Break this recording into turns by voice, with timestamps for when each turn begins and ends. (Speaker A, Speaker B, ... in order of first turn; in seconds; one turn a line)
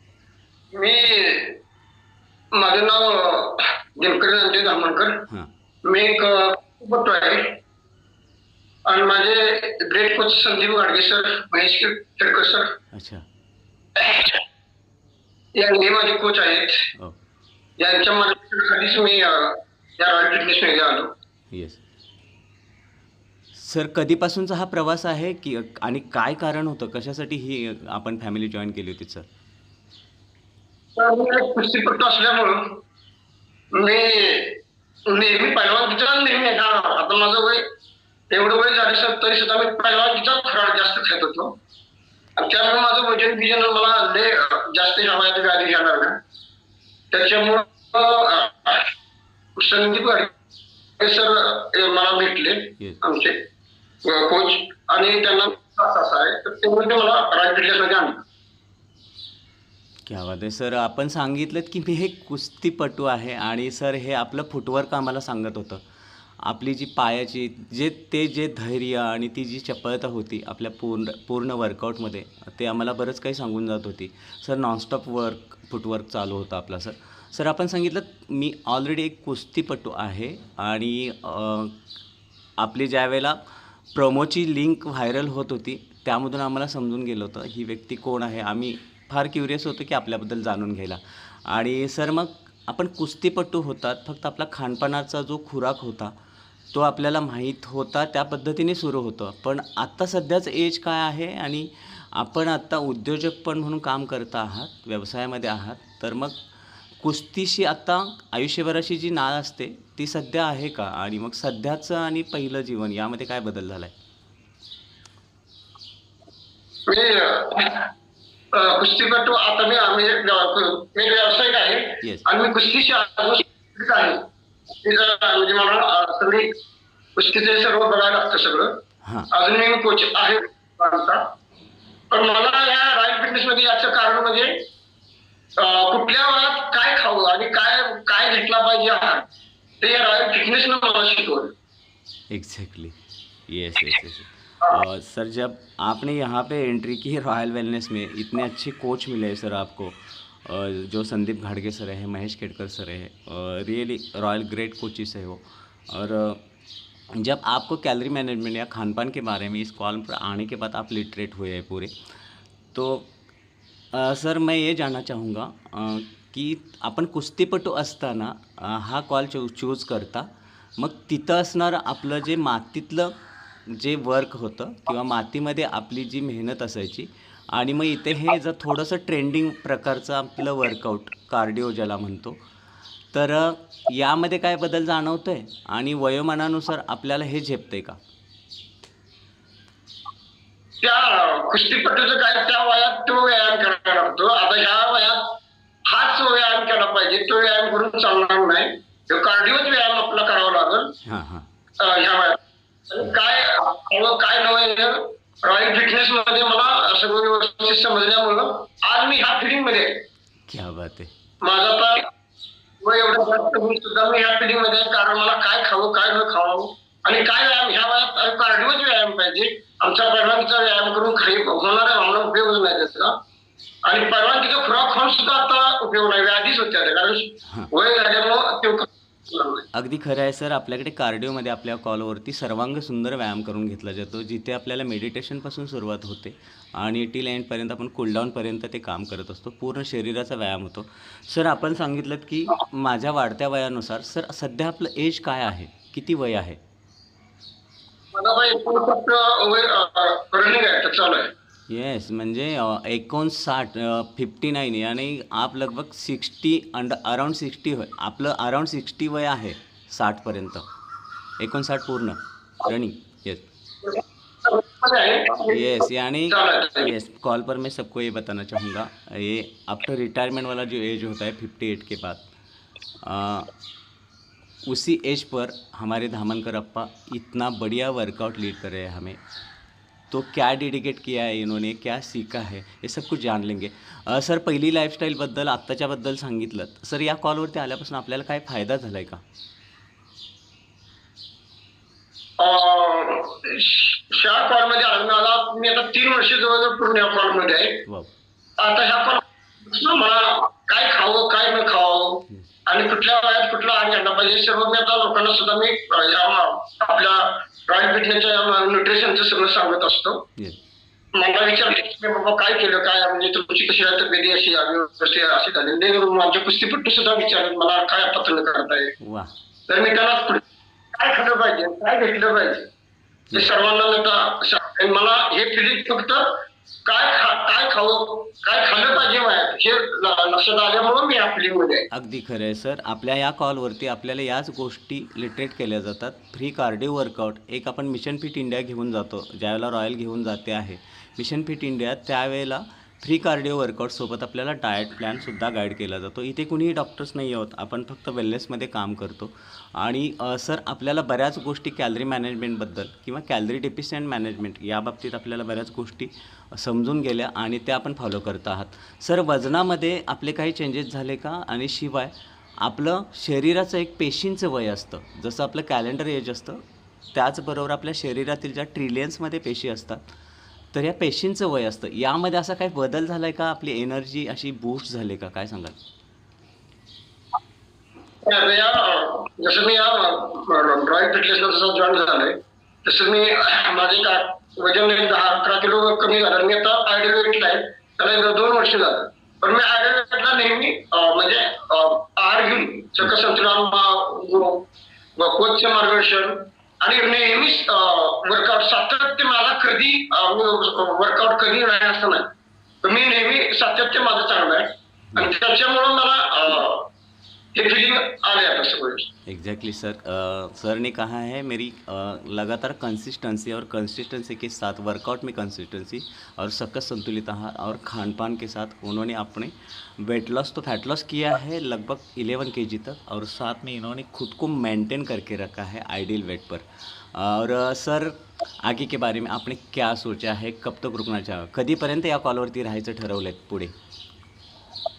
Speaker A: 0.7-1.6
Speaker A: 2.5-5.3
Speaker A: 5.8-7.6
Speaker A: 8.8-12.8
Speaker B: 12.9-13.2
Speaker A: 14.0-14.4
Speaker A: 15.6-16.9
Speaker A: 17.8-21.1
Speaker B: 21.5-21.8
Speaker B: 23.5-29.3
Speaker A: 31.0-32.8
Speaker A: 33.7-37.6
Speaker A: 38.3-41.6
Speaker A: 42.4-46.2
Speaker A: 47.1-48.9
Speaker A: 49.6-50.3
Speaker A: 51.0-53.5
Speaker A: 54.0-58.2
Speaker B: 60.1-65.8
Speaker B: 66.4-81.8
Speaker B: 82.6-83.4
Speaker B: 83.9-96.1
Speaker B: 96.7-106.4
Speaker B: 107.0-113.9
Speaker A: 116.9-117.9
Speaker A: 118.5-124.3
Speaker A: 124.8-126.5
Speaker A: 127.2-128.8
Speaker B: 129.0-129.3
Speaker A: 129.3-131.3
Speaker A: 132.1-134.7
Speaker A: 135.6-139.3
Speaker A: 139.8-141.5
Speaker B: 142.3-142.9
Speaker B: 143.5-156.4
Speaker B: 157.1-161.9
Speaker B: 162.7-163.1
Speaker B: 163.9-173.2
Speaker B: 173.7-182.4
Speaker B: 183.1-188.0
Speaker A: 190.8-200.9
Speaker B: 201.1-201.5
Speaker A: 201.8-210.1
Speaker B: 210.5-211.1
Speaker A: 211.4-212.1
Speaker A: 212.8-223.2
Speaker A: 223.8-229.7
Speaker B: 229.7-246.6
Speaker A: 248.1-251.3
Speaker B: 251.7-260.6
Speaker B: 261.4-263.4
Speaker A: 263.8-266.9
Speaker B: 265.5-272.3
Speaker B: 273.0-273.5
Speaker B: 274.6-279.2
Speaker B: 280.1-289.2
Speaker A: 292.4-297.9
Speaker B: 297.9-298.1
Speaker A: 298.6-310.2
Speaker A: 311.1-319.0
Speaker B: 319.0-319.3
Speaker A: 319.7-322.7
Speaker A: 323.3-331.9
Speaker B: 331.9-366.6
Speaker B: 367.1-370.0
Speaker B: 370.7-375.8
Speaker A: 378.2-402.3
Speaker A: 402.8-406.9
Speaker A: 407.5-409.1
Speaker B: 409.3-433.7